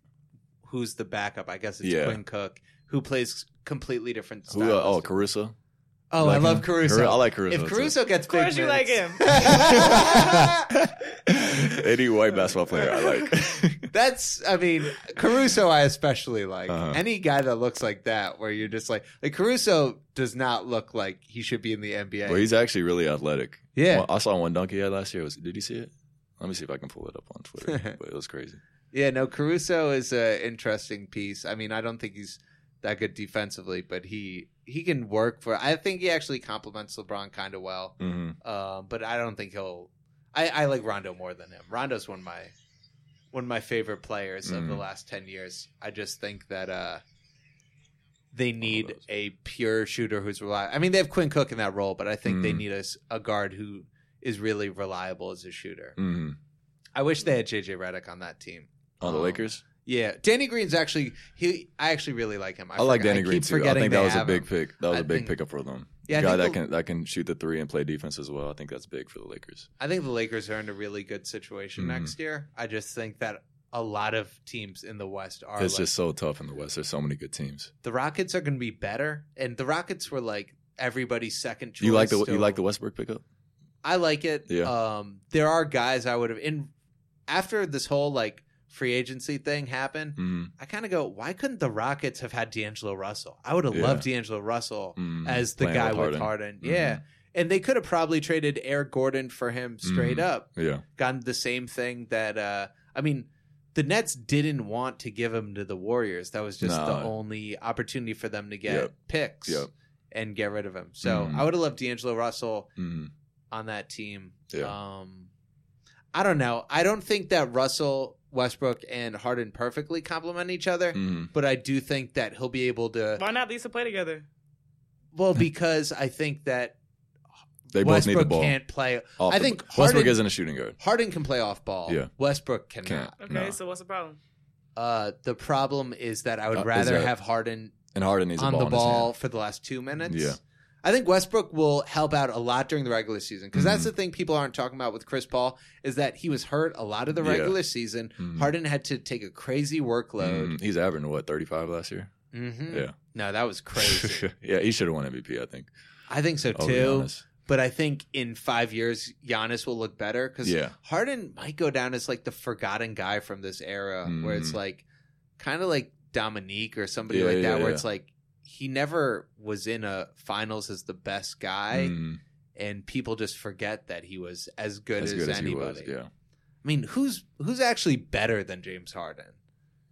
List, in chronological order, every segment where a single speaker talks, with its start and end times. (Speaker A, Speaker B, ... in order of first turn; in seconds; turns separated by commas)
Speaker A: 0.6-5.1, Speaker B: 1.8-2.2, Speaker B: 4.5-5.5, Speaker A: 6.1-10.8, Speaker B: 6.2-8.0, Speaker C: 8.3-10.3, Speaker B: 9.5-13.9, Speaker A: 13.8-22.5, Speaker B: 16.7-17.0, Speaker B: 22.2-28.6, Speaker A: 23.7-24.1, Speaker A: 27.6-27.9, Speaker A: 28.9-42.5, Speaker B: 38.0-38.4, Speaker A: 43.3-47.0, Speaker B: 44.4-44.8, Speaker A: 48.3-56.0, Speaker B: 48.7-49.0, Speaker B: 52.2-52.6, Speaker B: 56.0-56.4, Speaker A: 56.9-65.3, Speaker B: 59.0-59.6, Speaker B: 62.8-69.7, Speaker A: 66.1-66.6, Speaker A: 69.8-75.9, Speaker B: 71.8-72.1, Speaker B: 75.6-77.7, Speaker A: 77.8-82.6, Speaker B: 81.8-83.2, Speaker A: 83.8-86.7, Speaker B: 84.5-84.7, Speaker A: 87.3-112.7, Speaker B: 90.2-90.5, Speaker B: 93.7-94.1, Speaker B: 95.0-97.0, Speaker B: 99.8-100.8, Speaker B: 106.6-107.1, Speaker B: 108.7-108.9, Speaker B: 111.0-111.5, Speaker B: 112.8-113.1, Speaker A: 113.5-115.3, Speaker A: 116.1-123.2, Speaker B: 120.9-121.3, Speaker C: 123.2-124.2, Speaker A: 125.1-126.8, Speaker A: 127.7-130.2, Speaker B: 127.7-128.6, Speaker B: 129.2-130.8, Speaker A: 130.8-133.1, Speaker B: 131.9-132.1, Speaker B: 132.8-133.6, Speaker C: 133.2-134.2, Speaker A: 134.8-137.8, Speaker B: 136.5-137.1, Speaker B: 137.9-139.1, Speaker A: 138.4-150.6, Speaker B: 140.1-140.4, Speaker B: 143.5-143.9, Speaker B: 147.2-147.6, Speaker B: 148.2-148.5, Speaker B: 150.2-152.1, Speaker A: 152.3-154.2, Speaker B: 152.7-152.9, Speaker B: 153.8-155.7, Speaker A: 156.1-164.8, Speaker B: 156.5-157.3, Speaker B: 160.4-160.8, Speaker B: 164.0-164.6, Speaker A: 165.4-171.9, Speaker B: 167.1-167.8, Speaker B: 171.7-172.2, Speaker A: 172.6-175.9, Speaker B: 175.0-176.1, Speaker A: 176.6-179.4